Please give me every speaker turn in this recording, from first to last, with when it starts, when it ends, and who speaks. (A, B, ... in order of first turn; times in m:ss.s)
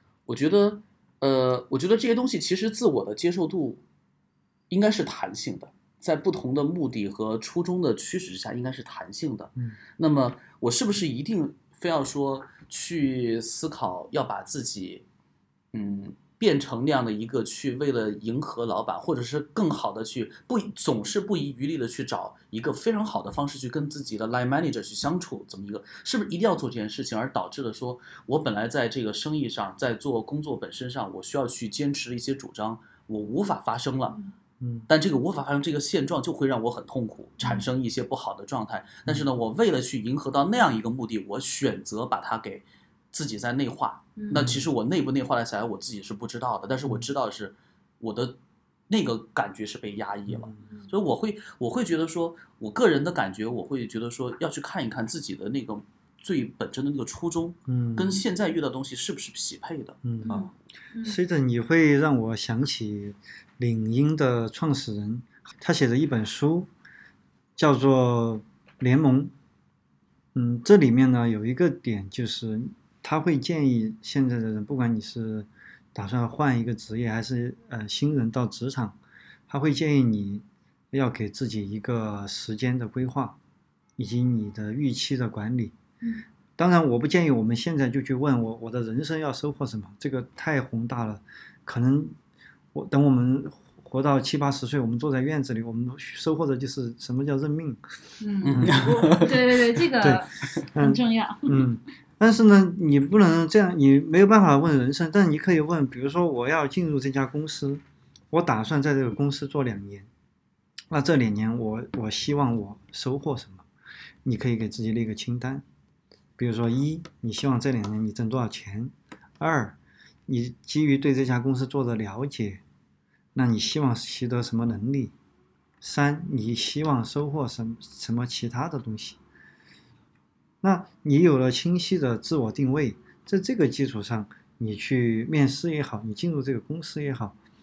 0:00.3-0:03.8 A
0:04.7-0:15.0 A
0:15.7-0:34.2 A
0:34.6-0:34.9 B
0:34.9-0:48.4 A
0:44.2-0:44.4 C
0:44.3-0:44.6 B
0:48.9-1:00.5 A
0:50.3-0:50.6 B
0:57.7-0:58.2 B
1:00.0-1:00.4 B
1:00.2-1:01.2 C
1:01.0-1:06.7 B
1:07.6-1:09.3 B
1:10.3-1:23.4 B
1:24.0-1:25.7 B
1:26.6-1:32.2 B
1:32.7-1:37.8 B
1:38.2-1:41.7 C
1:38.5-1:39.3 A
1:38.5-1:39.3 B
1:40.0-1:50.1 B
1:50.9-1:53.6 B
1:54.2-1:55.6 B
1:56.4-2:02.6 B
2:03.3-2:05.1 B
2:05.8-2:09.2 B
2:10.6-2:17.4 B